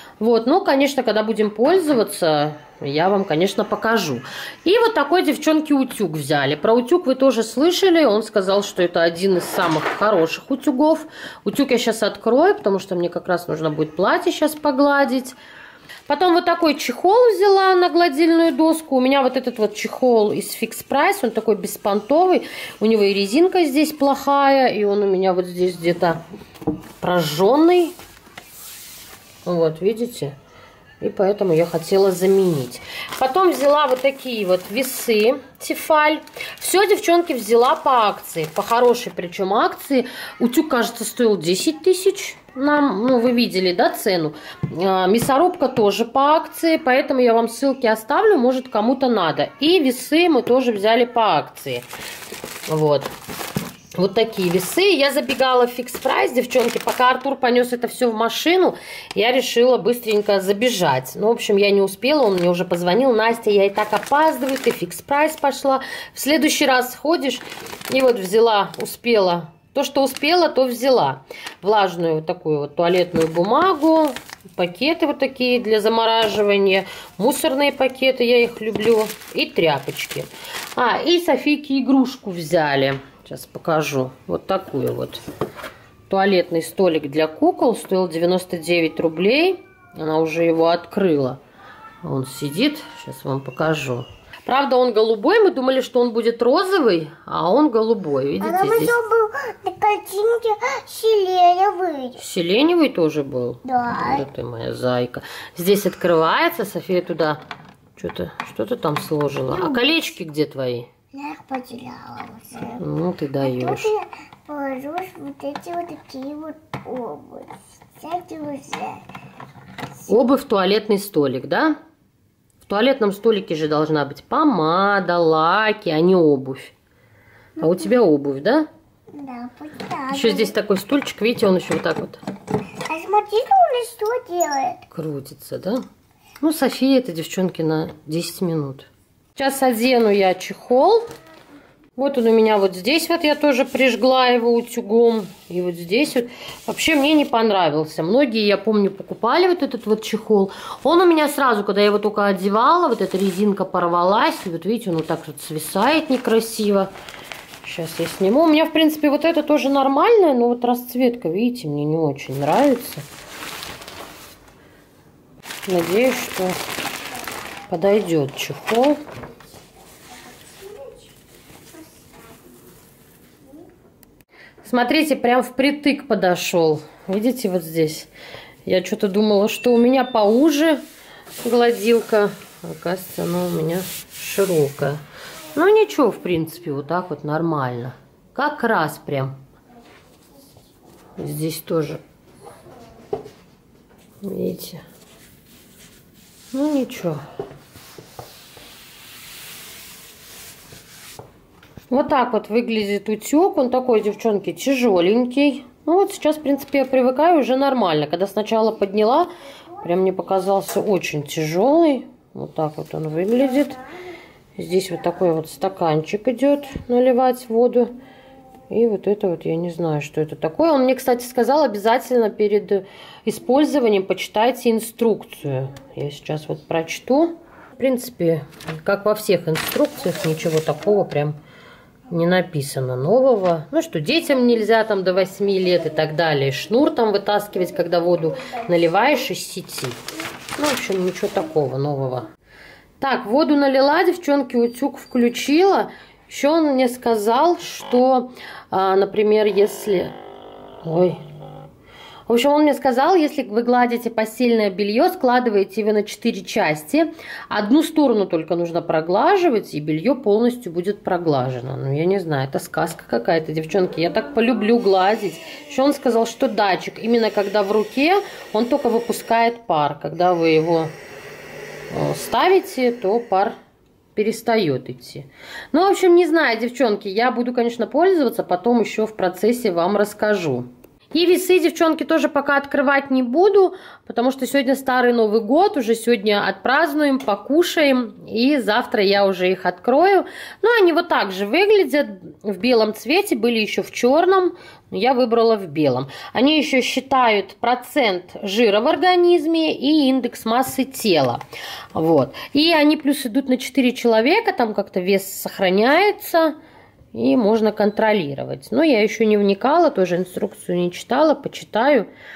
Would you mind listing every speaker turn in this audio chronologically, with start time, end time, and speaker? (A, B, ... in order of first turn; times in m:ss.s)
0:00.2-0:15.4 A
0:16.1-0:26.2 A
0:27.0-0:27.9 A
0:29.4-0:30.3 A
0:31.0-0:51.8 A
0:52.7-0:53.1 A
0:53.9-1:25.2 A
1:26.1-1:31.4 A
1:32.0-1:39.0 A
1:38.4-1:42.2 B
1:42.2-1:47.4 A
1:43.7-1:44.2 B
1:48.0-1:50.9 A
1:49.5-1:49.8 B
1:51.1-1:52.8 B
1:52.7-1:53.9 A
1:53.4-1:59.0 B
2:00.1-2:01.8 A
2:02.6-2:06.7 A
2:07.6-2:08.7 A
2:09.1-2:10.5 B
2:10.1-2:12.2 A
2:12.8-2:14.8 B
2:14.9-2:15.8 A
2:16.4-2:21.0 A
2:22.0-2:36.9 A
2:37.6-2:43.0 A
2:45.6-2:46.6 A
2:47.7-2:49.0 A
2:54.6-2:58.1 A
2:58.6-3:00.8 A
3:01.4-3:05.0 A
3:05.5-3:09.3 A
3:11.2-3:12.0 A
3:14.2-3:14.8 A
3:16.5-3:17.2 A
3:21.9-3:29.3 A
3:29.8-3:33.8 A
3:34.6-3:37.9 A
3:38.7-3:51.4 A
3:52.1-4:00.0 A
4:00.6-4:02.3 A
4:03.0-4:10.1 A
4:10.8-4:11.2 A
4:12.3-4:30.9 A
4:31.9-4:33.6 A
4:34.1-5:01.4 A
5:01.9-5:06.5 A
5:07.1-5:12.1 A